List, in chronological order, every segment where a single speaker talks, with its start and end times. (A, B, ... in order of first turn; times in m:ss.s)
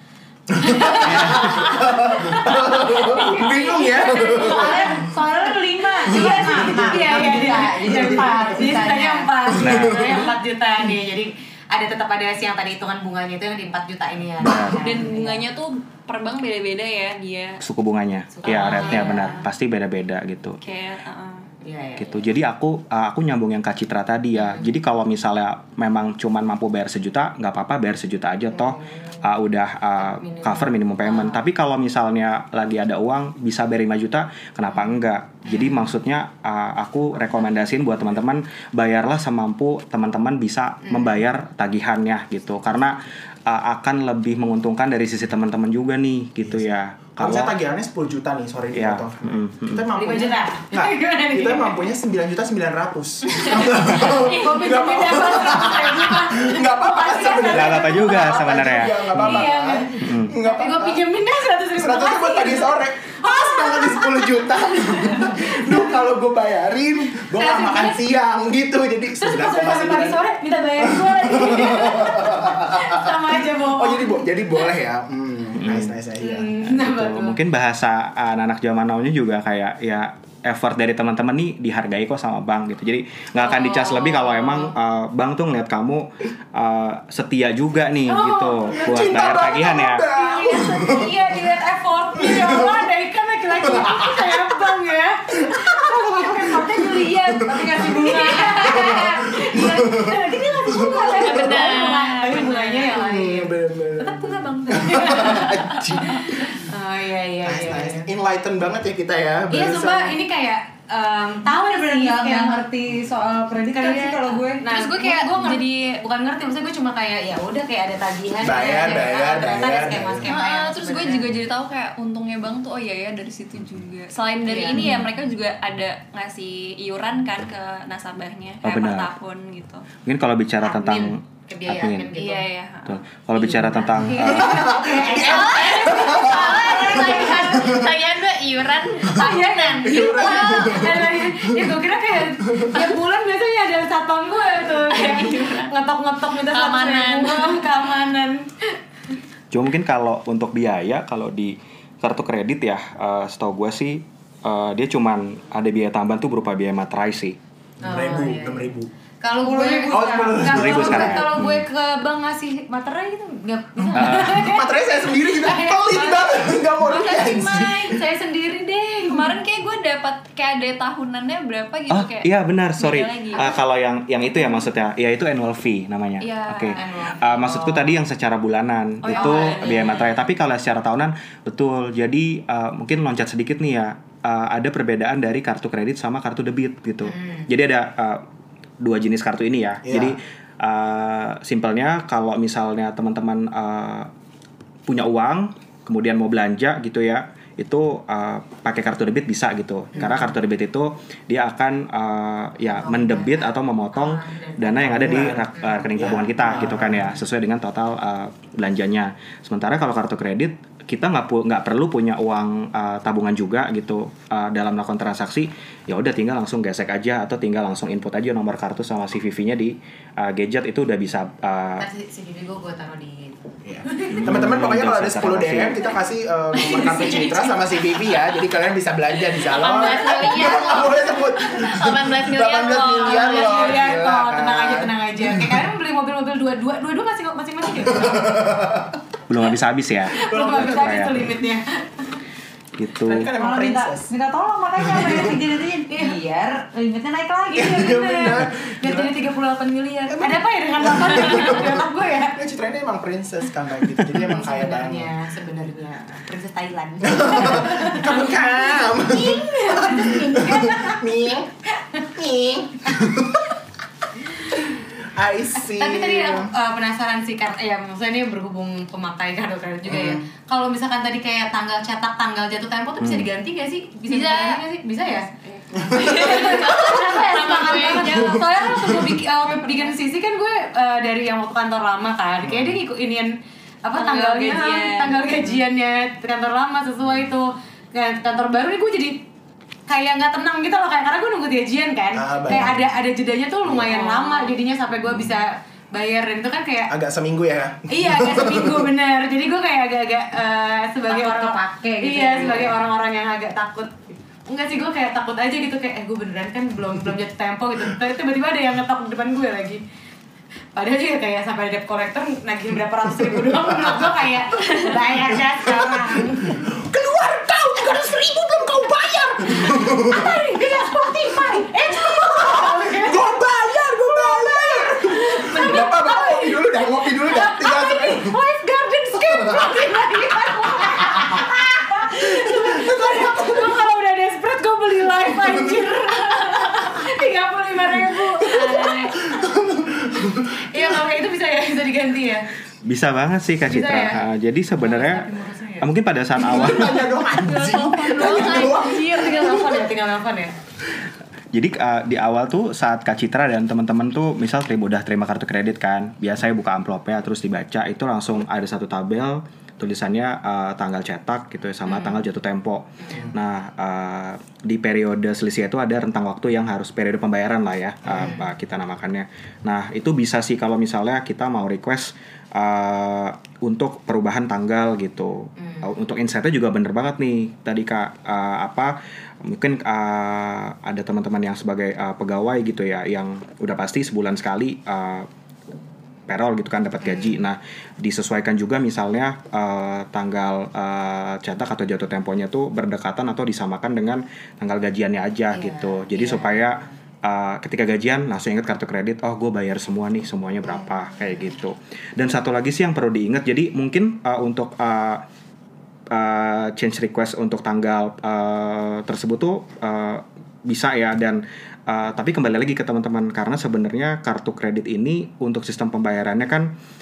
0:00.5-0:15.4 A
0:00.6-0:05.0 B
0:01.0-0:01.6 C
0:04.3-0:09.3 D
0:06.2-0:08.4 B
0:09.5-0:09.9 B
0:09.6-0:10.2 C
0:14.4-0:14.9 C
0:14.7-0:17.6 E
0:17.6-0:20.6 C
0:18.3-0:19.4 A
0:18.5-0:19.4 E
0:20.6-0:21.5 E
0:21.6-0:22.3 A
0:22.0-0:47.5 C
0:24.4-0:24.7 A
0:28.5-0:29.2 A
0:30.0-0:31.4 A
0:35.5-0:35.8 A
0:46.4-1:01.0 B
0:48.7-0:49.9 C
0:49.9-0:51.9 A
0:53.7-0:58.4 A
0:54.0-0:55.8 E
0:57.5-0:59.5 C
0:59.1-1:05.9 A
1:00.0-1:00.3 C
1:01.8-1:10.2 B
1:07.3-1:08.0 A
1:09.2-1:14.6 A
1:10.8-1:16.5 B
1:15.6-1:15.9 C
1:16.2-1:17.4 A
1:16.6-1:30.1 C
1:23.4-1:24.7 E
1:28.1-1:48.1 A
1:28.7-1:31.4 B
1:32.1-1:32.9 B
1:33.6-1:34.5 B
1:35.3-1:41.7 B
1:37.4-1:38.9 D
1:40.9-1:42.6 E
1:42.7-1:46.5 B
1:47.4-1:50.2 B
1:49.5-1:52.7 A
1:51.4-1:54.7 D
1:53.5-2:01.3 A
1:54.7-1:56.0 E
1:58.4-2:00.3 B
2:00.3-2:09.8 E
2:04.4-2:04.9 A
2:04.7-2:05.0 C
2:08.6-2:09.1 C
2:10.0-2:12.1 C
2:10.6-2:12.5 A
2:12.2-2:13.0 E
2:12.8-2:14.8 C
2:13.4-2:17.9 A
2:14.2-2:17.9 B
2:15.0-2:20.9 E
2:19.0-2:28.7 A
2:19.8-2:21.8 B
2:22.4-2:22.8 B
2:24.9-2:25.7 E
2:26.5-2:27.7 E
2:29.5-2:37.4 C
2:37.8-2:38.9 B
2:37.8-2:38.7 A
2:39.2-2:49.4 A
2:39.4-2:41.0 D
2:39.9-2:41.2 B
2:40.5-2:41.6 C
2:43.8-2:48.0 B
2:43.9-2:44.4 C
2:46.9-2:48.0 E
2:49.0-2:53.6 E
2:51.9-3:08.2 C
2:56.2-2:56.8 E
2:56.7-2:58.0 A
2:59.0-3:00.2 E
2:59.1-2:59.9 A
3:07.0-3:07.5 A
3:08.8-3:14.1 C
3:09.8-3:10.2 B
3:14.9-3:41.8 C
3:22.6-3:25.0 A
3:24.8-3:27.2 B
3:25.6-3:25.9 A
3:41.8-3:44.4 A
3:43.6-3:55.6 B
3:44.1-3:45.8 C
3:46.5-3:48.3 A
3:49.4-3:53.9 E
3:49.6-3:49.8 A
3:53.0-3:58.7 A
3:57.8-3:58.9 B
3:59.3-4:01.3 C
4:00.1-4:02.2 A
4:00.2-4:01.1 B
4:02.8-4:03.3 C
4:03.0-4:04.1 B
4:03.3-4:08.0 D
4:04.8-4:05.3 B
4:07.5-4:12.4 A
4:07.5-4:09.1 B
4:10.1-4:15.1 B
4:14.0-4:21.0 A
4:17.0-4:23.5 B
4:24.5-4:26.5 B
4:25.7-4:35.3 A
4:29.9-4:30.2 B
4:34.1-4:39.0 E
4:35.9-4:43.3 A
4:35.9-4:36.9 B
4:38.1-4:39.1 B
4:42.4-4:42.8 B
4:43.8-4:49.2 A
4:44.0-4:45.5 E
4:49.9-4:56.9 A
4:52.1-4:52.8 B
4:53.9-4:54.5 D
4:56.9-4:58.9 B
4:57.9-5:09.8 A
5:01.1-5:02.8 D
5:10.7-5:16.6 A
5:13.5-5:13.9 B
5:15.3-5:20.4 B
5:19.4-5:23.4 A
5:22.3-5:28.4 B
5:24.1-5:39.6 A
5:29.1-5:29.7 B
5:32.3-5:33.8 B
5:38.5-5:40.8 B
5:40.2-5:42.5 A
5:42.8-5:45.3 C
5:43.7-5:44.2 A
5:44.8-5:45.9 A
5:45.8-5:47.0 C
5:46.4-5:49.8 B
5:47.4-5:49.7 E
5:48.2-5:50.5 A
5:51.5-6:25.3 C
6:01.8-6:02.2 A
6:03.0-6:03.3 A
6:08.0-6:08.3 B
6:15.6-6:15.9 A
6:26.3-6:45.2 C
6:27.0-6:27.4 A
6:35.5-6:37.0 A
6:46.1-6:56.7 C